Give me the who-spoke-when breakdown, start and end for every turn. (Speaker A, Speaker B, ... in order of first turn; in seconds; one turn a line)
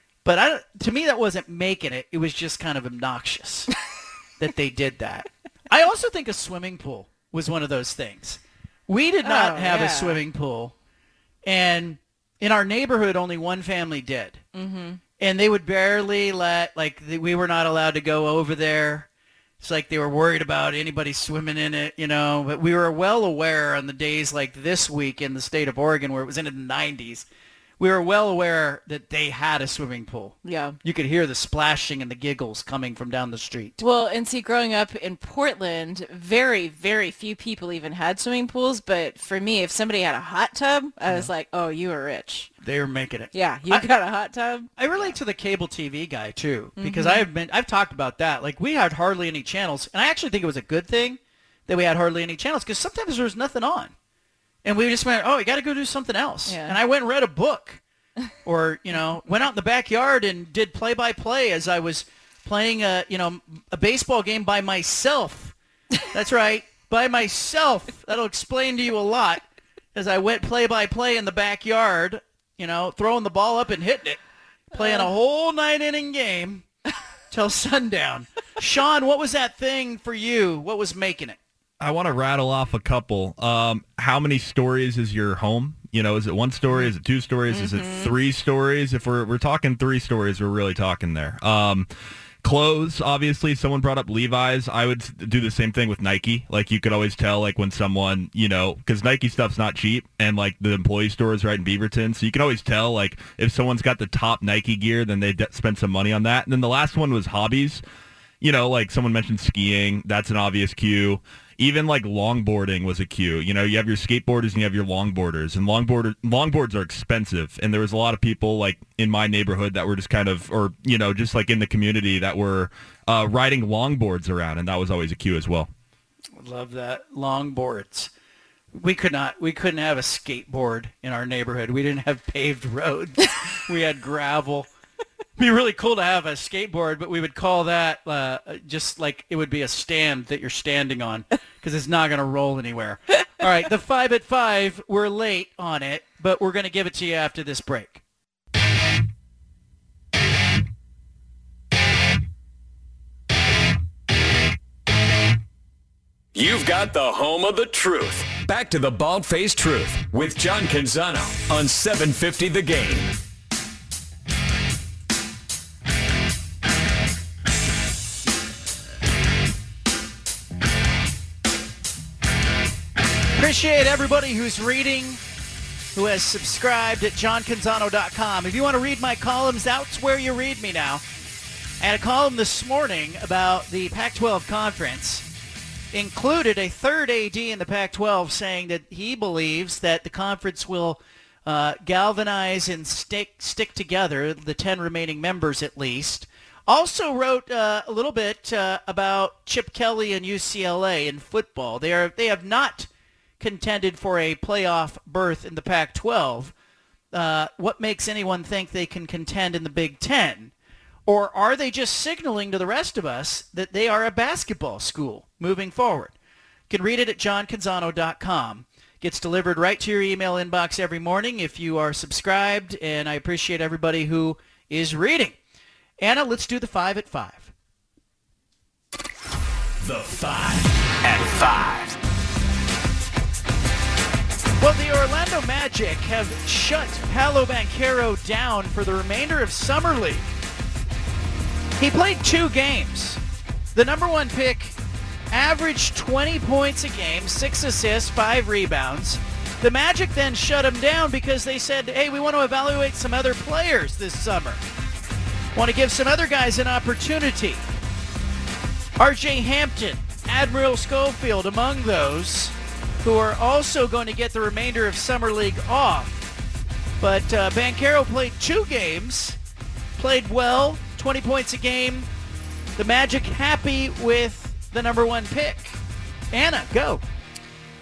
Speaker A: 0.2-3.7
Speaker A: 4.4-10.7
Speaker B: 9.2-10.2
Speaker A: 11.4-14.4
Speaker B: 14.5-15.0
Speaker A: 15.2-19.1
Speaker A: 19.6-27.3
Speaker A: 27.8-33.8
Speaker B: 30.4-30.8
Speaker B: 33.8-42.5
Speaker A: 42.6-43.9
Speaker B: 43.3-45.1
Speaker A: 44.8-53.9
Speaker B: 46.8-47.2
Speaker A: 54.6-57.8
Speaker B: 56.5-56.8
Speaker A: 58.4-65.5
Speaker A: 66.1-74.2
Speaker B: 74.7-75.1
Speaker A: 74.7-76.7
Speaker A: 77.3-81.4
Speaker C: 81.8-91.9
Speaker B: 87.5-88.1
Speaker C: 92.4-107.8
Speaker C: 108.4-125.7
Speaker A: 126.4-128.1
Speaker A: 128.7-134.7
Speaker A: 135.4-148.0
Speaker D: 156.3-163.1
Speaker A: 173.3-175.2
Speaker A: 175.9-181.0
Speaker A: 181.8-185.2
Speaker A: 185.9-202.9
Speaker A: 203.4-206.5
Speaker A: 207.1-210.5
Speaker A: 211.1-216.1
Speaker A: 216.7-225.4
Speaker A: 226.0-227.5
Speaker D: 229.8-232.0
Speaker A: 234.6-240.3
Speaker A: 241.8-243.2
Speaker A: 243.7-244.8
Speaker A: 245.3-254.6
Speaker A: 255.5-257.6
Speaker A: 259.0-266.2
Speaker A: 267.0-269.4
Speaker A: 270.0-272.1
Speaker A: 272.8-275.8
Speaker A: 276.3-277.0